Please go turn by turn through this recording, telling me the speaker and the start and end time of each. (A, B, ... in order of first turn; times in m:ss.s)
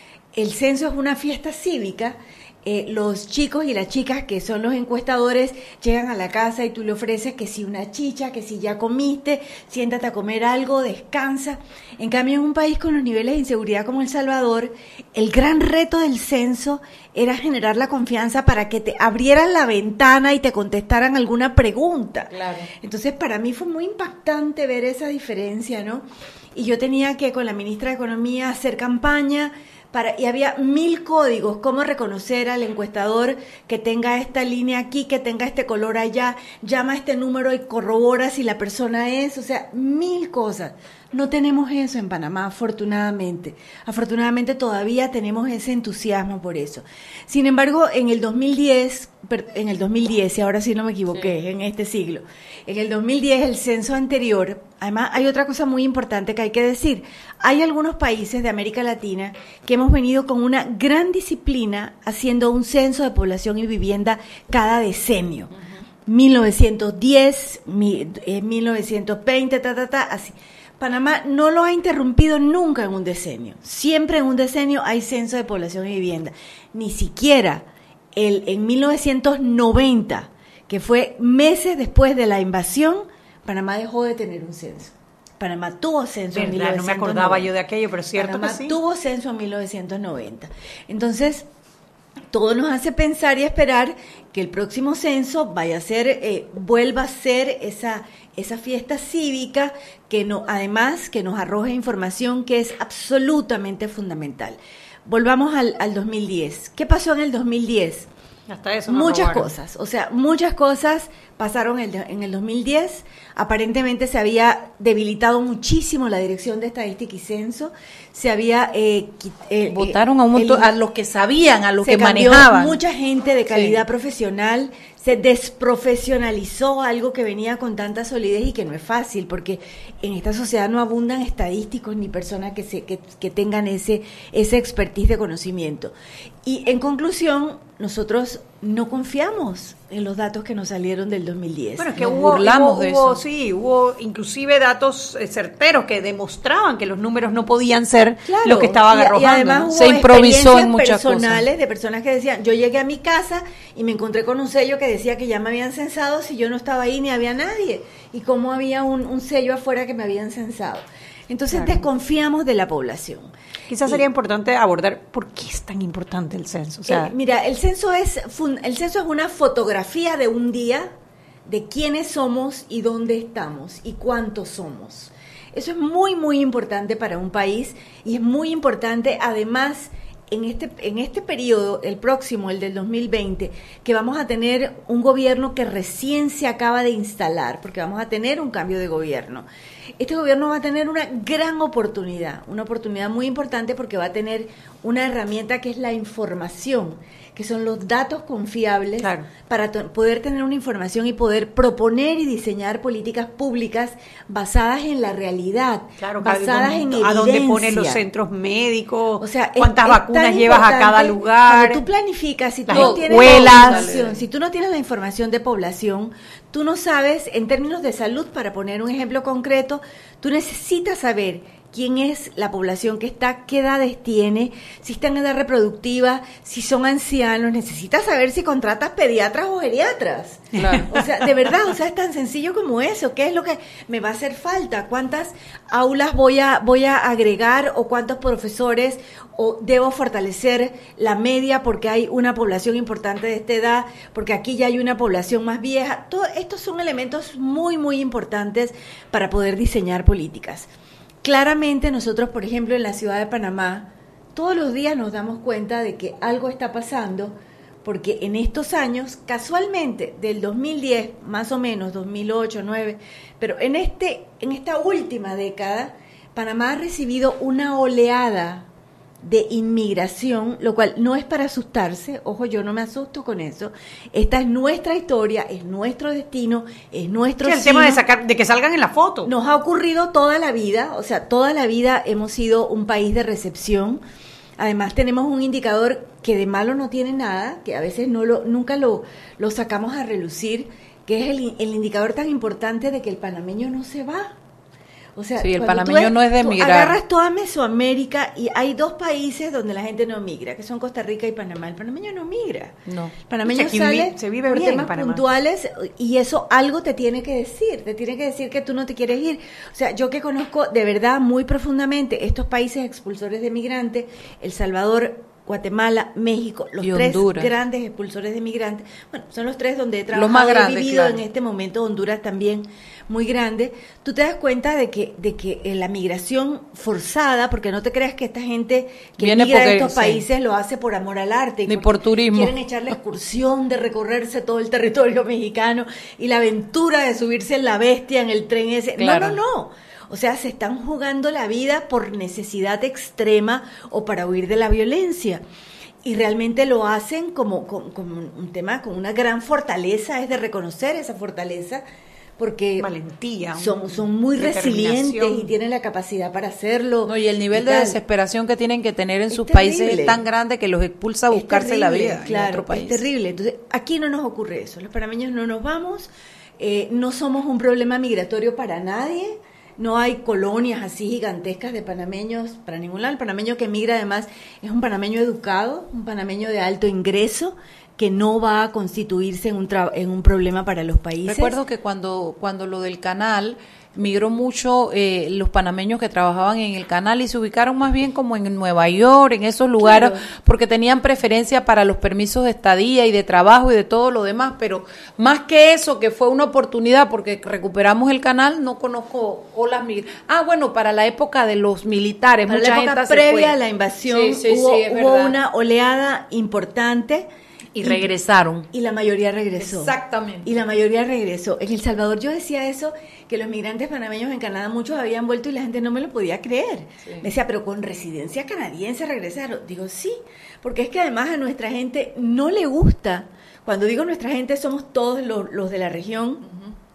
0:00.4-1:05.5 A
0:22.3-0:22.7 B
1:06.1-1:27.5 A
1:26.3-1:28.7 C
1:28.2-1:31.5 A
1:32.3-1:48.1 A
1:48.5-1:49.5 C
1:48.9-2:00.7 A
1:59.7-2:02.8 B
2:01.8-2:15.9 A
2:03.5-2:03.8 B
2:16.4-2:22.2 A
2:21.8-2:29.7 C
2:22.0-2:23.2 B
2:28.2-2:43.3 A
2:29.7-2:31.4 B
2:41.5-2:41.9 C
2:43.7-2:47.1 C
2:46.9-2:50.9 A
2:51.5-3:09.5 A
3:10.0-3:28.0 A
3:26.0-3:31.8 C
3:29.2-4:10.7 A
3:32.7-3:33.9 C
3:32.7-3:34.2 B
3:50.6-3:50.9 B
3:50.6-3:50.8 C
4:11.2-4:28.7 A
4:29.2-4:38.0 A
4:37.4-4:39.3 C
4:39.3-4:44.0 A
4:44.6-4:54.3 A
4:55.2-5:02.8 A
4:55.4-4:57.0 B
5:02.9-5:03.1 B
5:03.3-5:45.4 A
5:03.5-5:05.2 C
5:16.8-5:17.5 B
5:20.1-5:21.2 B
5:29.2-5:30.2 B
5:31.7-5:32.5 B
5:39.0-5:39.4 B
5:46.0-5:51.8 A
5:52.4-5:52.9 A
5:52.8-5:55.5 C
5:53.6-5:58.0 A
5:57.0-6:03.0 B
5:59.3-6:00.2 A
6:01.3-6:21.6 A
6:21.2-6:43.5 B
6:29.8-6:30.3 A
6:42.5-6:47.3 A
6:44.1-6:45.4 B
6:47.8-6:48.7 B
6:47.8-6:48.1 A
6:48.7-6:49.9 A
6:49.6-6:50.5 B
6:50.4-7:06.4 A
7:06.5-7:06.7 B